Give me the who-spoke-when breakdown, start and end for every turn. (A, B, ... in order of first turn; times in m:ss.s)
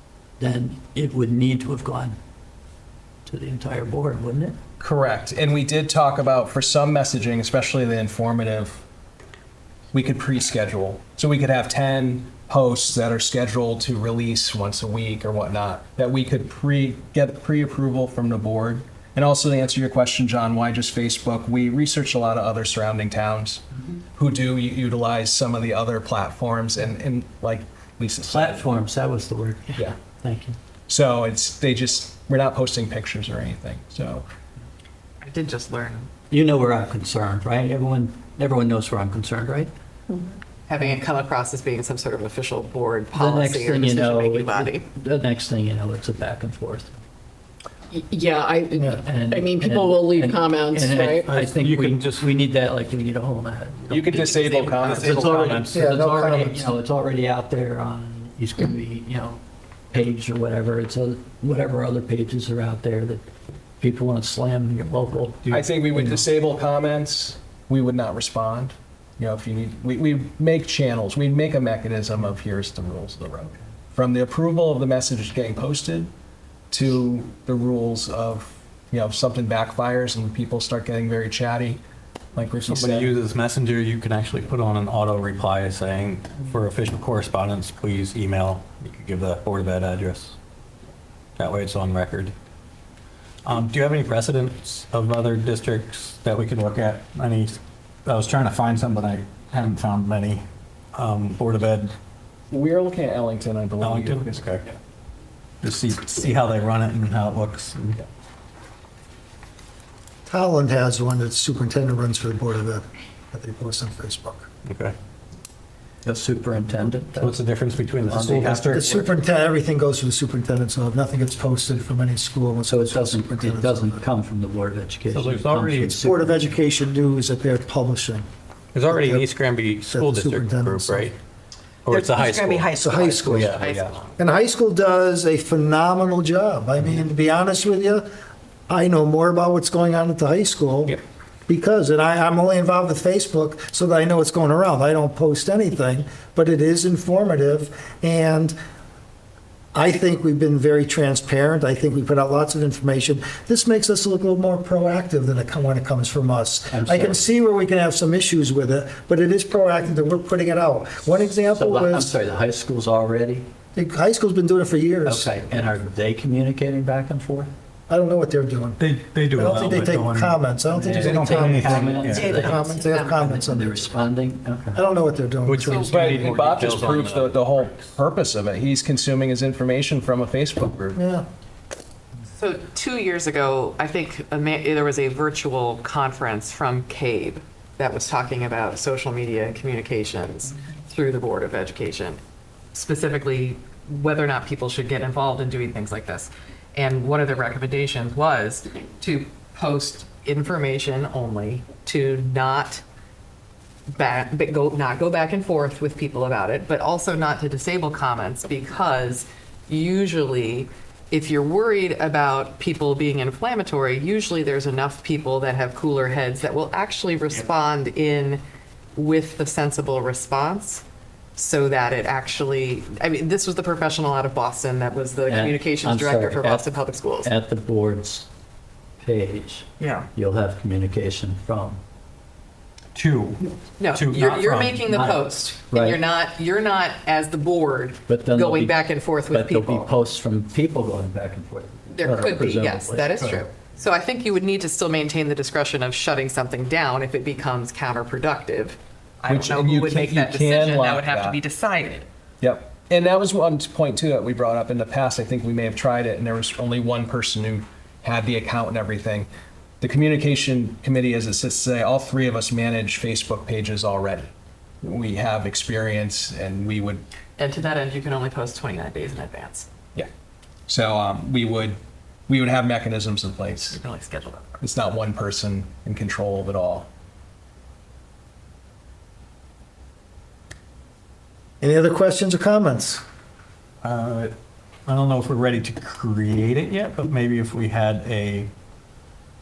0:00.4-0:02.2 A
0:03.2-0:04.6 A
0:04.8-0:08.8 B
0:09.9-0:28.7 B
0:28.2-0:30.6 A
0:30.9-0:34.3 B
0:35.2-0:36.1 C
0:36.3-0:39.7 A
0:40.7-0:44.8 C
0:43.1-0:46.9 A
0:47.9-0:51.3 D
0:48.7-0:49.0 E
0:49.0-0:54.0 A
0:51.3-0:52.3 F
0:53.9-0:55.6 B
0:54.1-0:54.9 C
0:54.8-0:55.8 F
0:54.9-0:59.4 A
0:55.7-0:56.7 E
0:59.9-1:03.2 A
1:03.8-1:05.5 A
1:05.4-1:06.1 F
1:05.5-1:16.1 B
1:16.7-1:21.8 B
1:22.3-1:23.2 B
1:22.7-1:30.3 F
1:31.4-1:32.3 F
1:33.4-1:40.4 F
1:40.9-1:41.9 F
1:42.5-1:44.5 B
1:43.8-1:44.6 F
1:45.6-1:48.0 F
1:50.3-1:54.5 E
1:54.6-1:54.9 F
1:56.0-1:57.4 A
1:57.2-1:58.9 F
1:58.0-1:59.1 A
1:58.7-2:04.0 E
2:02.7-2:06.4 A
2:05.1-2:06.0 F
2:06.0-2:08.2 E
2:08.7-2:11.1 F
2:08.9-2:09.2 E
2:09.8-2:11.1 E
2:11.8-2:13.9 F
2:12.1-2:14.2 C
2:12.7-2:13.6 E
2:14.2-2:18.1 E
2:18.7-2:28.5 E
2:29.7-2:42.1 E
2:36.7-2:37.2 A
2:41.5-2:43.5 A
2:43.8-2:45.3 E
2:45.0-2:47.5 A
2:47.9-2:53.8 E
2:48.8-2:52.4 F
2:50.8-2:54.8 A
2:52.1-2:53.3 C
2:54.7-2:56.3 E
2:55.4-2:57.4 F
2:55.8-3:01.0 B
3:00.9-3:01.2 E
3:02.3-3:12.2 C
3:12.7-3:22.8 C
3:23.9-3:38.4 C
3:39.0-3:40.8 C
3:41.4-3:47.3 C
3:45.3-3:46.7 A
3:47.2-3:48.3 A
3:49.0-3:51.8 A
3:52.9-3:55.0 F
3:53.8-3:59.9 C
3:54.9-3:56.0 A
3:58.1-3:58.8 A
3:59.3-4:03.2 A
4:01.9-4:12.1 C
4:09.3-4:11.4 B
4:12.4-4:19.3 B
4:19.8-4:24.3 B
4:24.8-4:27.0 B
4:27.4-4:29.7 C
4:30.7-4:33.8 B
4:33.7-4:34.6 C
4:34.6-4:36.9 B
4:41.6-4:43.0 E
4:43.8-4:44.3 F
4:44.9-4:48.5 F